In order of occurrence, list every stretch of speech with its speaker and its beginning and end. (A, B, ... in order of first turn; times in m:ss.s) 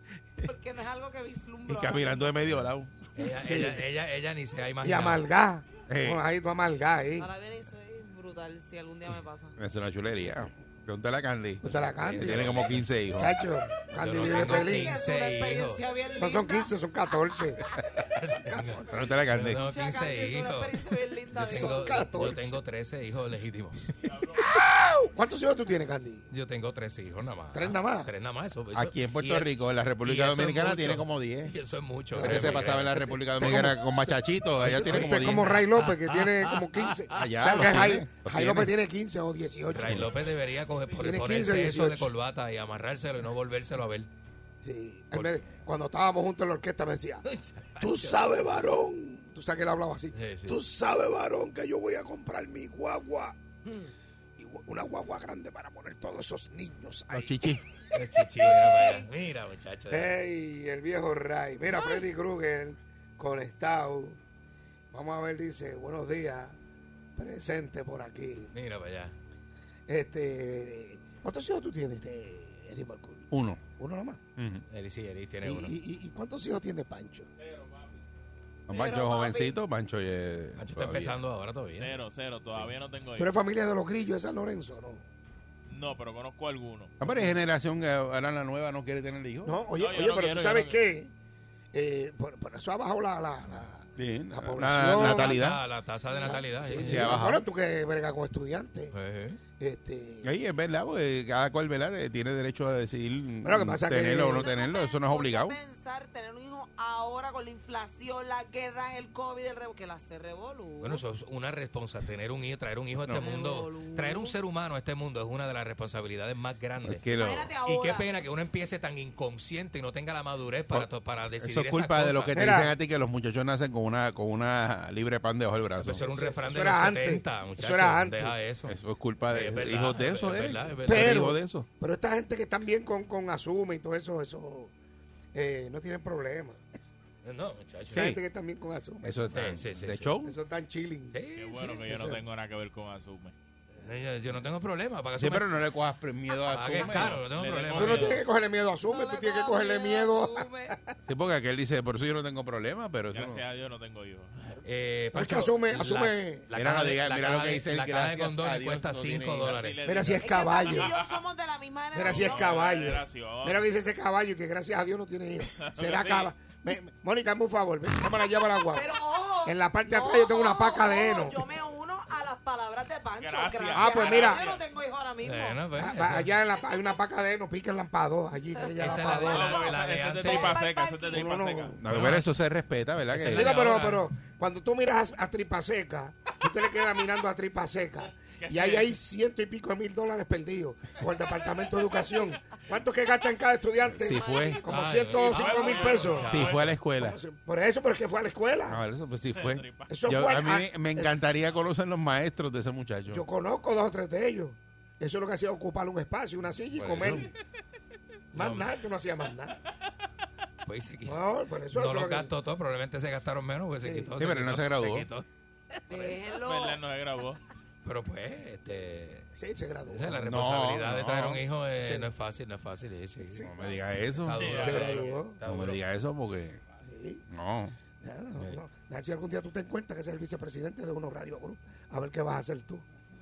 0:00.4-0:02.4 A
0:01.7-0:02.9 B
0:03.2-0:05.2 C
0:03.4-0:03.8 D
0:04.8-0:07.3 D
0:05.9-0:06.2 B
0:07.2-0:09.6 A
0:09.6-0:13.4 B
0:11.6-0:12.6 D
0:11.7-0:12.9 C
0:13.2-0:14.9 D
0:13.9-0:15.8 C
0:14.2-0:16.7 A
0:16.2-0:17.6 D
0:18.0-0:20.8 C
0:18.5-0:19.1 D
0:18.9-0:19.6 B
0:19.5-0:22.1 A
0:21.3-0:23.9 C
0:21.4-0:22.6 D
0:24.4-0:26.3 D
0:26.3-0:33.1 C
0:27.5-0:28.1 D
0:28.7-0:31.5 B
0:32.1-0:33.8 D
0:32.2-0:35.5 B
0:34.6-0:40.1 D
0:34.6-0:37.3 C
0:37.1-0:38.7 B
0:39.7-0:44.1 C
0:39.8-0:40.0 B
0:41.0-0:42.1 D
0:44.6-0:47.2 D
0:47.2-0:48.3 C
0:47.8-0:53.3 D
0:50.1-0:50.6 C
0:53.6-0:53.9 A
0:54.4-0:57.6 D
0:57.1-0:57.6 B
0:57.9-1:00.1 C
0:58.4-0:59.1 A
0:59.9-1:04.2 D
1:01.7-1:02.0 A
1:04.9-1:06.6 D
1:07.2-1:08.5 D
1:08.5-1:09.1 C
1:09.9-1:14.2 D
1:13.3-1:13.6 B
1:14.4-1:14.6 B
1:14.7-1:15.7 C
1:15.4-1:17.3 D
1:17.4-1:17.9 E
1:18.7-1:21.2 B
1:18.7-1:19.6 A
1:20.6-1:22.0 C
1:21.7-1:23.3 E
1:23.2-1:25.0 D
1:25.7-1:26.9 E
1:27.0-1:29.6 B
1:29.4-1:31.1 D
1:29.7-1:30.8 E
1:31.7-1:35.4 D
1:34.0-1:35.6 B
1:35.0-1:37.2 C
1:36.2-1:38.9 D
1:36.8-1:37.4 B
1:38.9-1:39.4 C
1:39.6-1:40.3 D
1:40.2-1:45.6 B
1:43.4-1:44.5 D
1:44.2-1:51.0 A
1:50.8-1:57.0 C
1:53.2-1:54.4 A
1:56.8-1:57.5 B
1:57.1-1:58.1 A
1:57.6-2:02.4 C
2:01.4-2:06.0 B
2:02.3-2:02.7 D
2:05.8-2:08.7 C
2:06.1-2:08.3 D
2:08.7-2:11.7 B
2:09.3-2:11.3 C
2:10.8-2:14.7 D
2:15.3-2:16.6 D
2:17.2-2:18.1 C
2:17.9-2:19.3 D
2:17.9-2:18.2 B
2:19.0-2:20.4 B
2:19.3-2:20.1 C
2:20.2-2:21.2 D
2:21.1-2:21.8 C
2:21.3-2:23.3 E
2:21.8-2:22.2 D
2:23.8-2:25.5 C
2:25.2-2:27.2 B
2:26.4-2:28.2 C
2:26.8-2:27.1 A
2:27.2-2:28.2 E
2:27.8-2:30.8 D
2:28.8-2:30.8 A
2:31.0-2:33.4 B
2:33.1-2:34.6 E
2:34.6-2:39.8 C
2:35.1-2:36.5 D
2:36.5-2:39.6 B
2:39.4-2:41.2 E
2:39.8-2:40.9 D
2:40.2-2:42.7 A
2:41.9-2:51.4 D
2:42.0-2:43.7 E
2:45.6-2:46.3 E
2:48.7-2:55.6 A
2:53.2-2:54.6 E
2:53.7-2:54.4 D
2:55.2-2:56.3 C
2:55.8-2:59.6 D
2:58.8-3:00.6 C
2:59.2-3:01.8 E
2:59.3-2:59.6 A
3:00.2-3:01.3 A
3:01.1-3:01.8 D
3:01.8-3:03.6 B
3:01.8-3:02.3 C
3:03.1-3:04.0 C
3:03.3-3:18.8 D
3:08.3-3:08.9 E
3:13.9-3:14.6 B
3:14.1-3:14.6 A
3:14.6-3:16.7 C
3:15.2-3:16.7 E
3:16.2-3:17.2 B
3:18.7-3:23.2 B
3:19.3-3:20.0 E
3:19.9-3:21.2 D
3:23.1-3:27.3 D
3:26.7-3:27.3 B
3:28.3-3:29.6 D
3:28.3-3:28.7 C
3:30.6-3:31.2 C
3:31.0-3:32.3 D
3:31.7-3:35.2 C
3:33.8-3:34.1 D
3:34.2-3:35.1 B
3:35.9-3:36.8 A
3:36.3-3:37.4 E
3:37.8-3:39.3 C
3:39.3-3:40.2 D
3:39.9-3:43.5 C
3:40.2-3:41.4 B
3:41.8-3:42.1 D
3:43.2-3:43.7 D
3:43.4-3:44.6 B
3:44.1-3:45.8 C
3:44.3-3:45.2 E
3:44.5-3:45.4 D
3:45.4-3:46.6 B
3:46.8-3:47.2 D
3:47.3-3:47.8 B
3:48.0-3:52.8 D